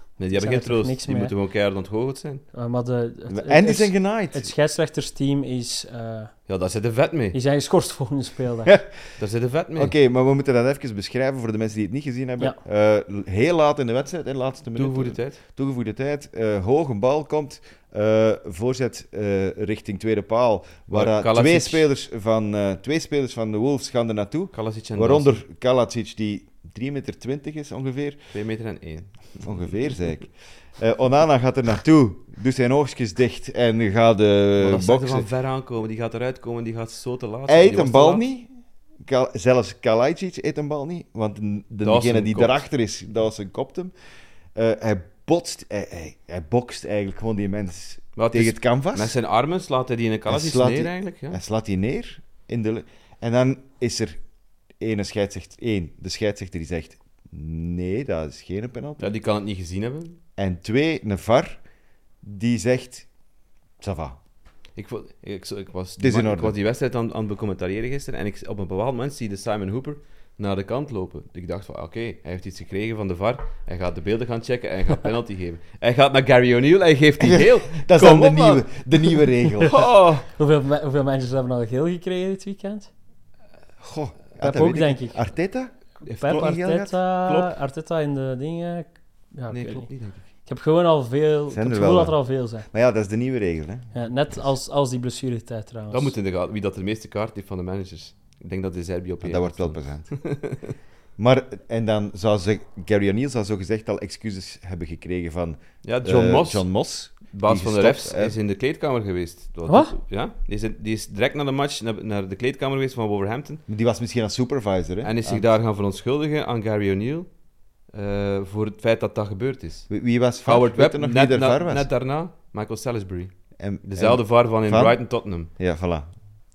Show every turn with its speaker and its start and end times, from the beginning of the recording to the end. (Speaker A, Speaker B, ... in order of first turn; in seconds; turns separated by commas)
Speaker A: 0.2-2.4, Speaker B: 0.3-1.3, Speaker B: 2.5-6.3, Speaker C: 3.3-4.5, Speaker A: 6.5-7.4, Speaker B: 7.3-8.8, Speaker C: 8.7-8.9, Speaker A: 9.2-9.9, Speaker C: 9.8-28.2, Speaker A: 14.7-15.4, Speaker A: 20.9-21.8, Speaker A: 24.5-25.4, Speaker A: 28.3-29.4, Speaker C: 29.4-35.3, Speaker A: 34.6-38.2, Speaker C: 37.5-38.5, Speaker C: 39.0-43.9, Speaker A: 41.8-42.6, Speaker C: 44.5-49.2, Speaker A: 48.1-51.4, Speaker C: 50.3-54.2, Speaker C: 54.8-59.0, Speaker A: 59.0-60.2, Speaker C: 60.4-61.6, Speaker C: 62.2-63.1, Speaker C: 63.8-64.2, Speaker A: 64.8-80.2, Speaker C: 66.0-66.5, Speaker C: 77.2-79.8, Speaker B: 80.3-82.9, Speaker C: 83.8-85.7, Speaker B: 84.4-85.2, Speaker A: 86.0-86.7, Speaker B: 86.0-92.7, Speaker C: 86.3-86.9, Speaker A: 87.2-87.5, Speaker A: 89.5-90.2, Speaker C: 91.5-93.9, Speaker B: 93.9-96.1, Speaker A: 95.9-100.7, Speaker C: 99.2-100.1, Speaker C: 101.2-108.4, Speaker A: 105.8-113.6, Speaker B: 109.7-109.9, Speaker C: 113.7-115.5, Speaker A: 115.0-125.5, Speaker C: 119.9-121.9, Speaker C: 123.6-126.1